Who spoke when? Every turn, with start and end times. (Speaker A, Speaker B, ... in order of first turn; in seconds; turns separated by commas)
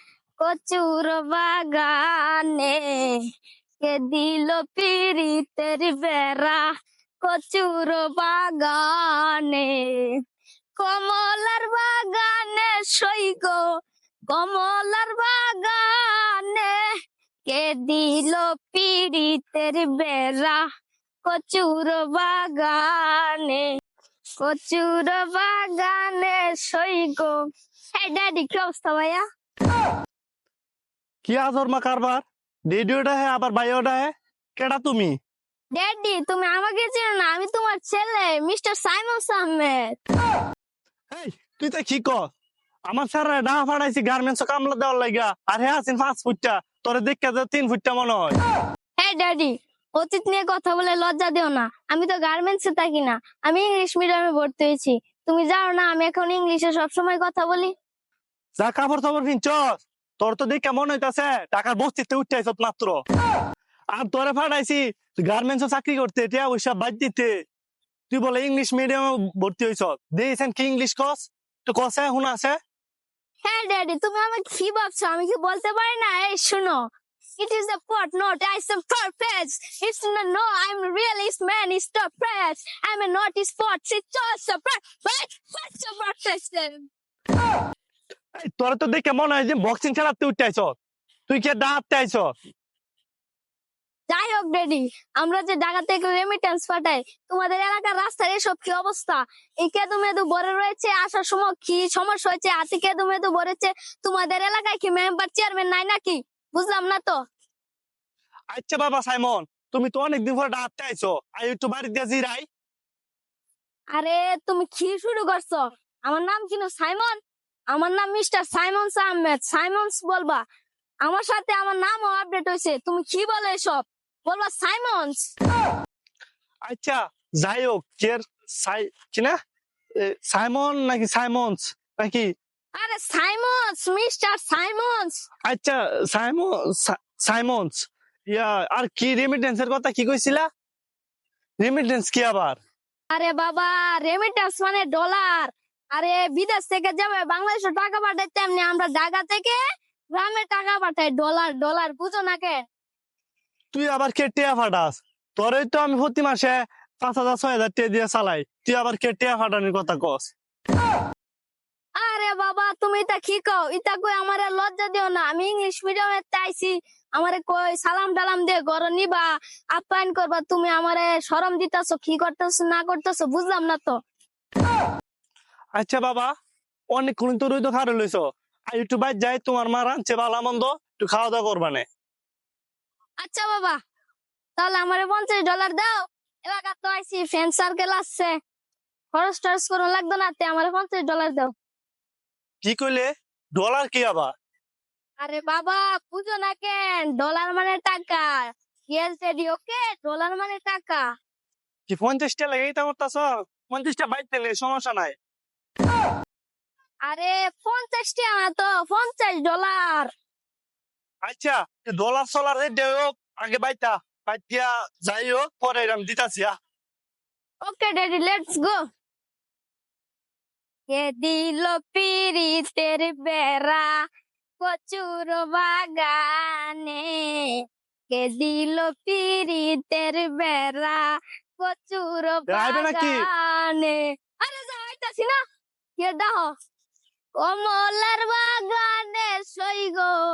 Speaker A: 0.4-3.2, Speaker A: 3.8-6.7, Speaker A: 7.2-10.1, Speaker A: 10.8-13.6, Speaker A: 14.3-16.8, Speaker A: 17.4-20.6, Speaker A: 21.2-23.7, Speaker A: 24.4-27.4, Speaker A: 27.9-29.2, Speaker B: 31.2-35.1, Speaker A: 35.7-40.0, Speaker B: 41.1-42.3, Speaker B: 42.9-48.4, Speaker A: 49.0-57.7, Speaker B: 58.6-63.0, Speaker B: 64.0-67.3, Speaker B: 68.1-72.6, Speaker A: 73.4-76.8, Speaker A: 77.4-86.9, Speaker B: 88.4-90.7, Speaker B: 91.3-92.3, Speaker A: 94.1-107.2, Speaker B: 108.5-112.5, Speaker A: 113.9-117.2, Speaker A: 117.7-120.4, Speaker A: 121.0-125.3, Speaker B: 126.7-129.3, Speaker B: 130.0-132.3, Speaker A: 132.8-135.2, Speaker B: 135.5-140.5, Speaker B: 141.6-142.6, Speaker A: 143.1-149.6, Speaker A: 150.1-152.7, Speaker B: 153.7-160.3, Speaker A: 162.0-174.0, Speaker B: 175.8-176.3, Speaker B: 176.9-181.8, Speaker A: 183.2-183.8, Speaker A: 184.6-188.3, Speaker A: 189.1-191.5, Speaker B: 192.6-194.3, Speaker A: 195.2-201.1, Speaker B: 201.9-205.2, Speaker A: 207.1-210.1, Speaker B: 211.2-216.6, Speaker A: 217.6-218.8, Speaker A: 220.9-223.9, Speaker A: 224.6-231.1, Speaker A: 231.6-235.4, Speaker B: 232.5-233.2, Speaker A: 236.0-236.5, Speaker A: 237.4-240.2